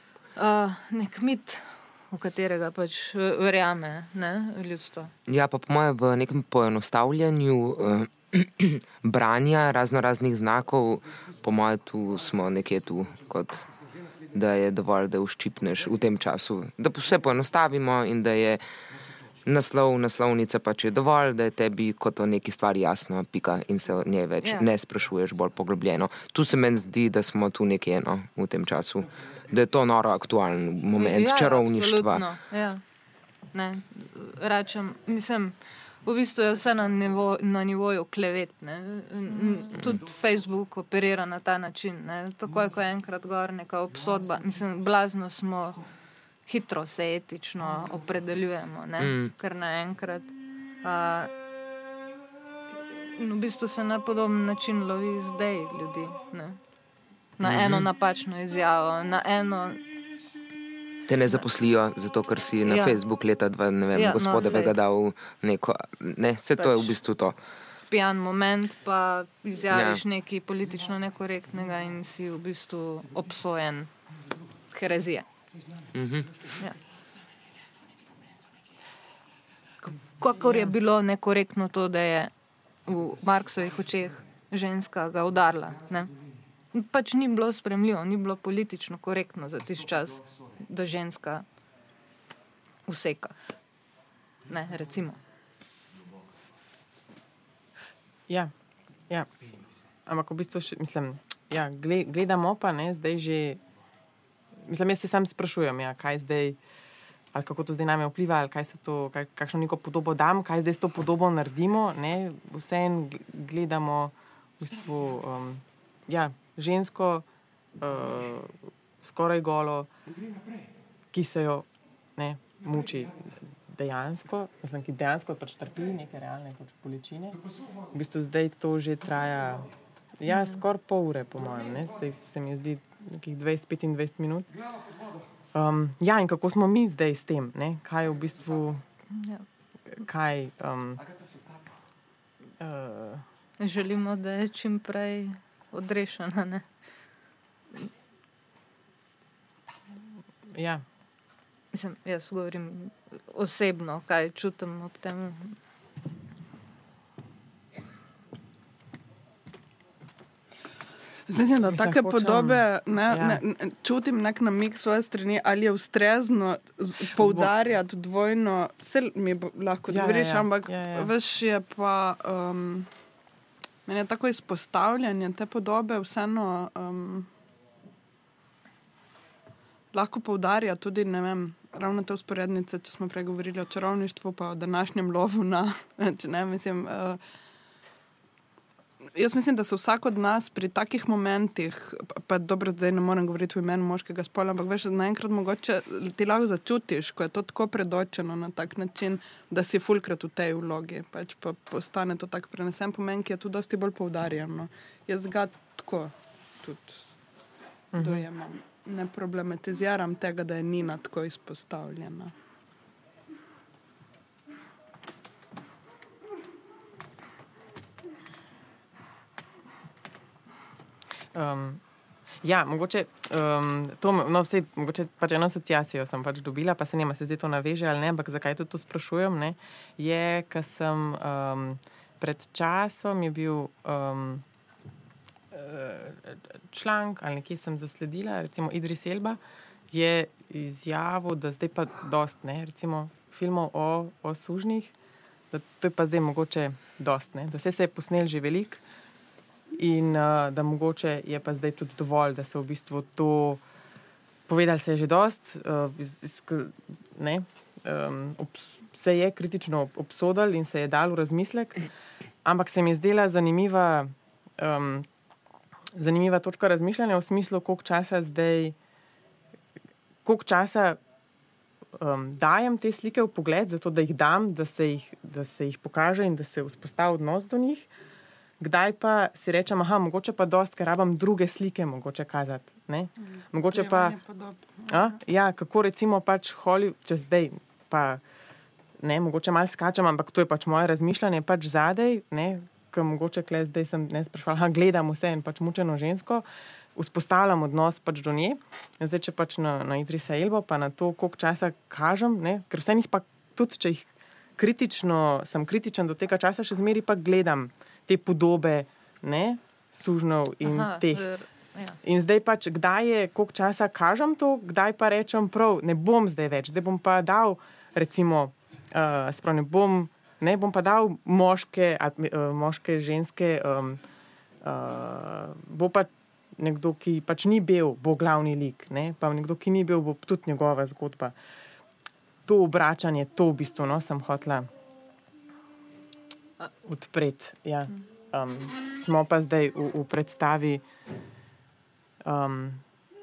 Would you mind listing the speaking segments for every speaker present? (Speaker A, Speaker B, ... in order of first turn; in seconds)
Speaker A: 0.3-5.1, 24.4-24.7, 30.9-32.8, 33.5-45.8, 46.5-50.3, 50.8-51.3, 53.1-56.6, 57.4-59.8, 62.6-63.0, 63.9-64.8, 66.6-66.9, 67.9-73.9, 74.7-75.2, 80.0-82.3, 82.8-86.1, 86.7-91.4, 92.9-93.4, 94.5-95.2, 130.3-130.6, 139.1-139.4, 143.6-146.7, 151.7-155.6, 310.6-312.0
Speaker B: 5.3-13.7, 14.3-18.6, 19.4-32.2, 49.0-49.3, 57.4-57.9, 61.1-67.3, 69.7-70.0, 75.9-76.3
Speaker C: 100.0-103.6, 104.7-106.6, 107.3-117.2, 117.8-119.9, 121.1-121.6, 122.2-127.4, 127.9-134.5, 135.5-138.8, 139.9-141.0, 142.6-143.2, 150.5-150.8, 161.6-163.4, 167.1-167.5, 169.9-171.1, 207.9-208.2, 221.3-221.8, 222.4-234.4, 235.5-239.4, 239.9-244.9, 245.5-248.8, 249.8-253.6, 254.5-261.8, 262.4-265.1, 265.9-268.7, 270.2-271.0, 272.0-277.9, 278.6-284.2, 284.9-288.2, 289.0-296.4, 296.9-311.2, 312.0-324.0, 324.6-331.3, 332.5-334.7, 336.6-340.8, 342.2-342.8
Speaker D: 161.3-172.9, 173.9-177.3, 179.9-187.2, 189.1-207.1, 207.9-212.3, 283.4-285.1